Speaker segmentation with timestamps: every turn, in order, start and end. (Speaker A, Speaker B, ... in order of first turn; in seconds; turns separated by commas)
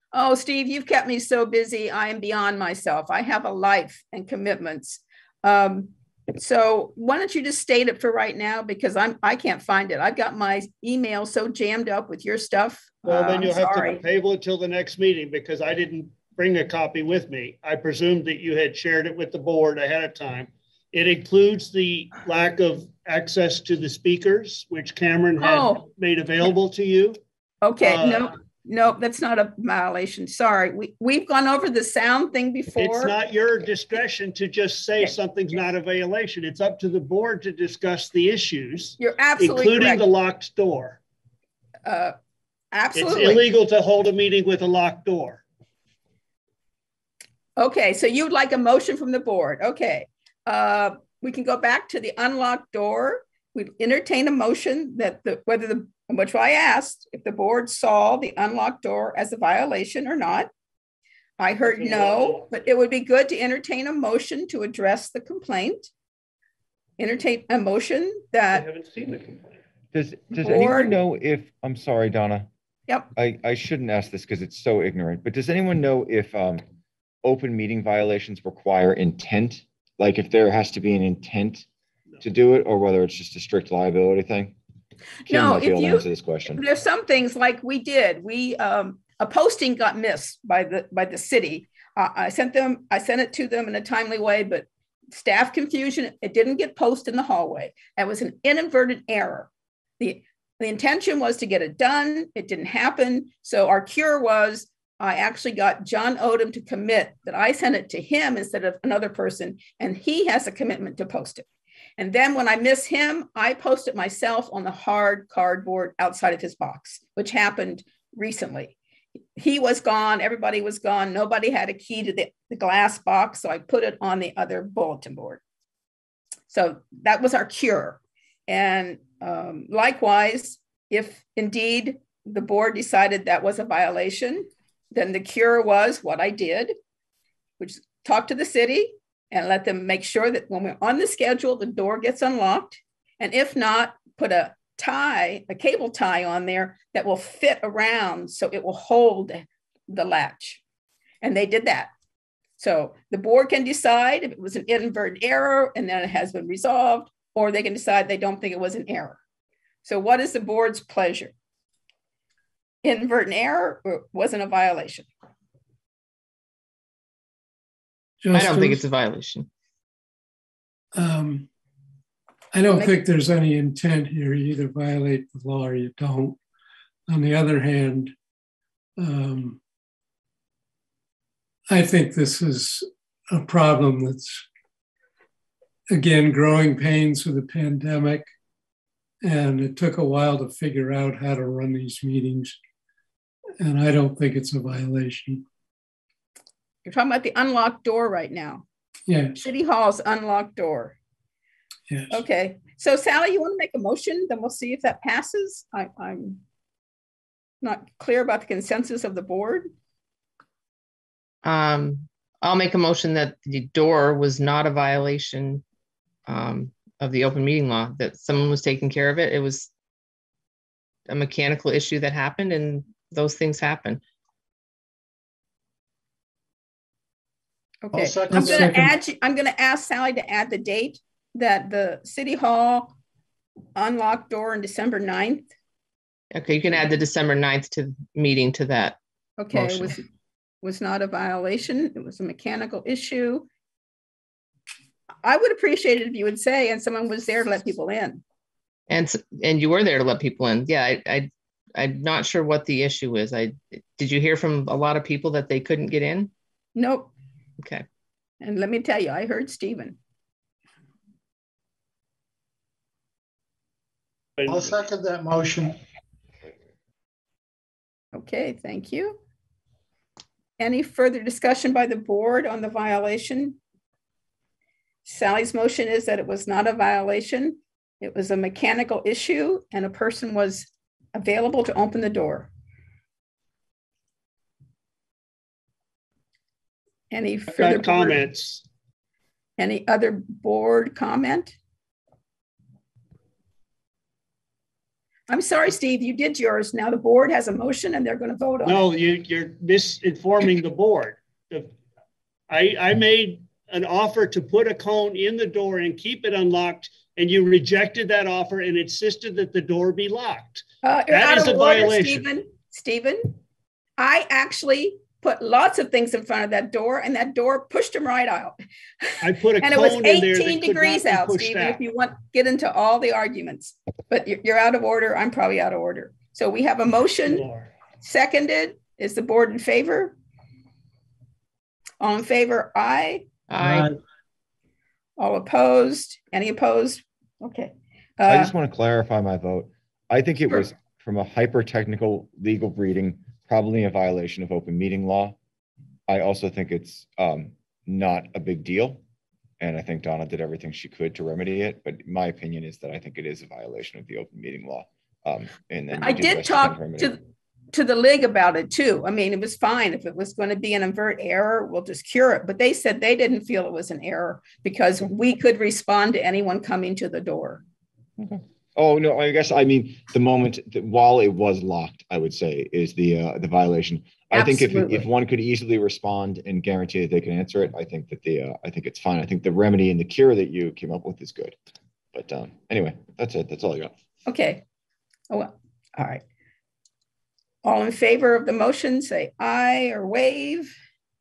Speaker A: 0.1-14.0, Speaker B: 13.1-27.2, Speaker A: 25.4-25.9, Speaker A: 27.6-33.1, Speaker B: 27.8-28.3, Speaker B: 32.8-41.0, Speaker A: 39.0-40.0, Speaker A: 41.9-42.1, Speaker A: 42.7-43.5, Speaker B: 43.0-45.4, Speaker A: 47.6-60.5, Speaker A: 61.4-65.9, Speaker B: 61.7-62.5, Speaker A: 67.0-68.7, Speaker B: 68.5-69.5, Speaker C: 69.9-72.5, Speaker A: 70.4-71.0, Speaker C: 73.2-76.6, Speaker C: 77.2-81.7, Speaker C: 82.2-84.5, Speaker A: 85.2-99.5, Speaker C: 85.3-86.6, Speaker A: 100.0-111.5, Speaker A: 112.0-118.8, Speaker A: 119.4-125.4, Speaker A: 126.5-136.7, Speaker A: 137.6-150.6, Speaker A: 151.2-151.9, Speaker A: 152.6-159.2, Speaker A: 159.8-161.3, Speaker A: 162.8-165.1, Speaker D: 168.2-168.8, Speaker E: 168.3-169.5, Speaker D: 170.9-171.5, Speaker D: 172.5-176.4, Speaker A: 172.7-173.0, Speaker D: 177.1-178.1, Speaker D: 179.0-179.6, Speaker D: 181.7-184.5, Speaker D: 185.9-188.3, Speaker D: 189.2-192.6, Speaker D: 193.6-195.4, Speaker A: 196.8-198.7, Speaker D: 199.1-199.4, Speaker A: 199.4-201.0, Speaker D: 201.9-202.2, Speaker A: 202.1-206.4, Speaker A: 207.6-209.7, Speaker E: 211.4-215.6, Speaker E: 216.3-219.7, Speaker E: 221.1-224.0, Speaker A: 227.8-232.9, Speaker F: 227.9-228.9, Speaker D: 228.3-228.9, Speaker A: 233.8-235.5, Speaker E: 236.3-239.0, Speaker A: 239.4-240.1, Speaker A: 240.6-243.5, Speaker A: 245.2-248.2, Speaker E: 248.9-256.3, Speaker A: 256.8-257.1, Speaker E: 257.6-257.9, Speaker A: 258.4-260.0, Speaker B: 264.4-264.8, Speaker F: 264.5-265.8, Speaker A: 268.1-269.2, Speaker A: 270.6-273.6, Speaker A: 275.1-282.5, Speaker A: 287.1-288.2, Speaker B: 287.5-288.6, Speaker A: 289.6-291.6, Speaker A: 295.3-298.9, Speaker B: 298.6-301.7, Speaker B: 302.5-312.2, Speaker A: 310.8-313.3, Speaker A: 314.0-327.4, Speaker B: 319.2-321.8, Speaker B: 327.2-327.7, Speaker A: 328.0-330.2, Speaker A: 332.0-333.3, Speaker E: 333.5-333.9, Speaker A: 335.2-338.5, Speaker C: 338.3-345.4, Speaker C: 346.1-349.0, Speaker C: 349.6-357.1, Speaker A: 355.9-357.2, Speaker A: 357.7-367.6, Speaker C: 368.2-381.6, Speaker A: 374.3-375.1, Speaker C: 382.1-383.9, Speaker A: 384.3-384.6, Speaker A: 385.3-386.2, Speaker A: 387.6-390.7